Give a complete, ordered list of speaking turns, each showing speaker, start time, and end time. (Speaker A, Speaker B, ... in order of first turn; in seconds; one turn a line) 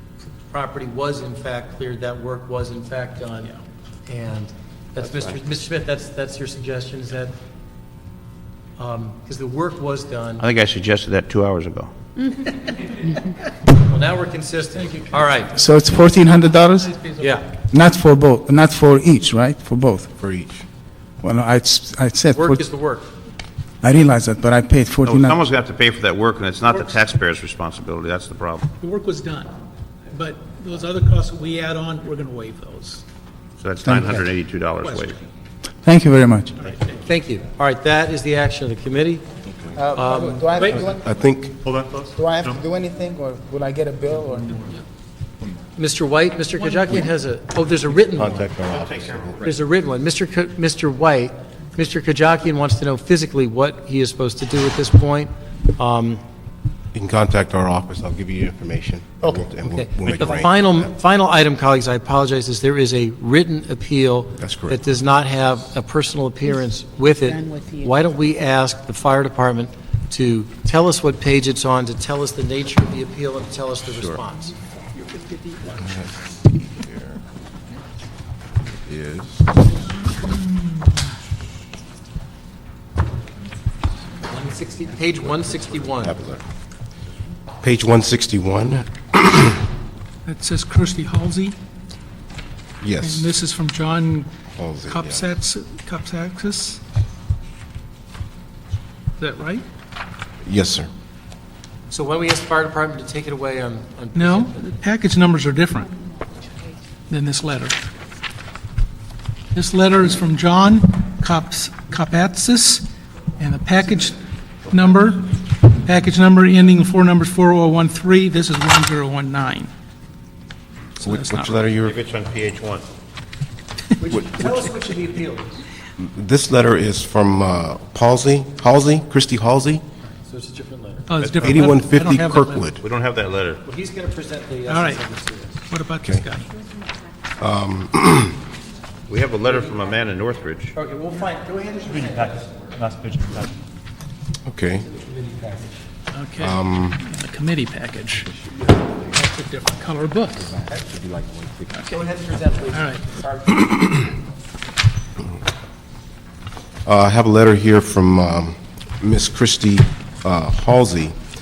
Speaker A: 0.5-3.6
Speaker A: 4.1-7.3
Speaker A: 8.8-10.4
Speaker B: 10.4-11.9
Speaker A: 13.7-15.6
Speaker C: 15.5-17.0
Speaker D: 16.8-17.4
Speaker A: 17.2-17.5
Speaker C: 17.5-20.1
Speaker E: 20.2-20.6
Speaker C: 21.2-22.6
Speaker A: 22.3-23.1
Speaker C: 23.8-25.4
Speaker B: 25.1-28.7
Speaker D: 28.8-29.5
Speaker D: 30.1-33.0
Speaker B: 33.6-35.2
Speaker C: 33.9-34.2
Speaker D: 34.8-35.2
Speaker C: 35.8-36.5
Speaker A: 37.0-39.3
Speaker C: 39.8-41.1
Speaker A: 40.0-40.8
Speaker E: 40.9-41.6
Speaker B: 41.7-42.0
Speaker C: 42.0-44.7
Speaker A: 45.8-48.5
Speaker E: 48.1-49.5
Speaker B: 48.6-49.6
Speaker A: 49.4-56.2
Speaker E: 56.9-60.9
Speaker A: 59.2-74.6
Speaker E: 64.4-64.8
Speaker E: 74.0-74.2
Speaker D: 75.0-75.8
Speaker E: 75.8-77.2
Speaker E: 78.8-79.6
Speaker A: 84.3-86.2
Speaker E: 85.9-86.4
Speaker E: 87.6-89.5
Speaker D: 90.2-91.6
Speaker E: 92.8-93.3
Speaker D: 93.0-94.3
Speaker E: 94.6-95.3
Speaker D: 94.8-96.8
Speaker D: 99.2-99.6
Speaker E: 100.5-100.9
Speaker A: 101.9-104.6
Speaker D: 104.2-106.0
Speaker D: 107.1-107.8
Speaker D: 109.5-119.7
Speaker D: 121.0-121.7
Speaker E: 121.0-122.0
Speaker B: 121.8-122.8
Speaker A: 124.0-125.6
Speaker E: 124.1-124.6
Speaker E: 126.0-129.8
Speaker A: 130.1-131.1
Speaker D: 131.1-132.7
Speaker B: 131.2-131.6
Speaker E: 131.4-132.8
Speaker B: 132.8-133.6
Speaker A: 133.7-135.7
Speaker D: 134.7-135.1
Speaker D: 135.7-136.5
Speaker E: 137.4-138.4
Speaker B: 139.1-140.8
Speaker A: 139.4-139.7
Speaker A: 140.7-142.8
Speaker B: 142.8-143.5
Speaker E: 144.5-144.9
Speaker A: 144.9-145.8
Speaker D: 146.1-148.3
Speaker E: 146.4-147.0
Speaker D: 149.1-150.5
Speaker A: 150.7-151.0
Speaker E: 151.0-151.6
Speaker A: 151.8-153.7
Speaker D: 152.7-153.1
Speaker E: 156.8-161.2